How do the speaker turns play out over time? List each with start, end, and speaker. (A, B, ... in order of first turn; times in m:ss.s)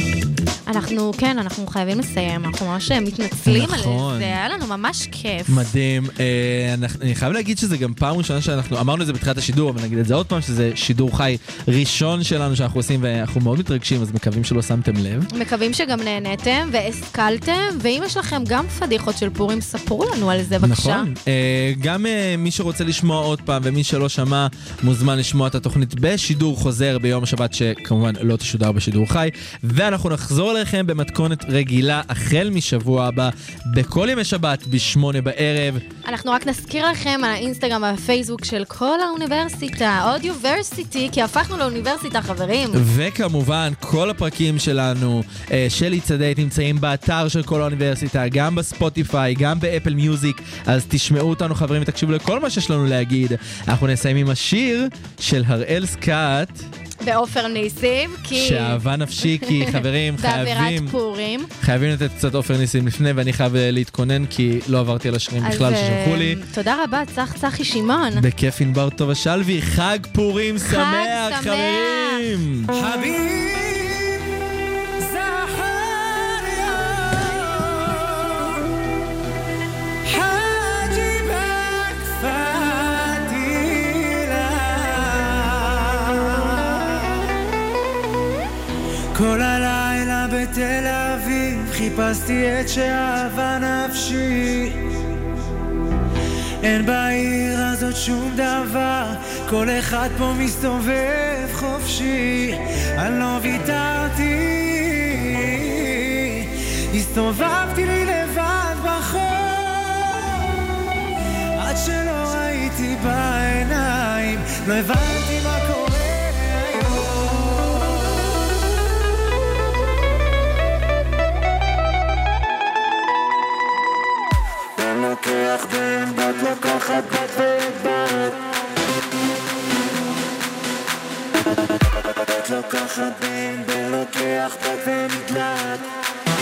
0:00.7-0:05.7 A
0:03.4-0:04.4 B
0:05.5-0:15.3 B
0:15.3-0:21.1 A
0:20.6-0:35.8 B
0:36.0-0:42.8 A
0:42.7-0:56.7 B
0:57.0-0:58.8 A
0:58.3-1:00.9 B
0:59.3-1:01.5 A
1:01.6-1:06.4 B
1:05.4-1:08.2 A
1:08.1-1:12.7 B
1:10.6-1:12.3 A
1:12.7-1:14.4 C
1:15.0-1:18.6 C
1:20.0-1:27.4 C
1:29.1-1:34.8 C
1:36.6-1:50.6 C
1:51.6-1:58.3 C
2:04.8-2:08.4 C
2:12.0-2:15.9 C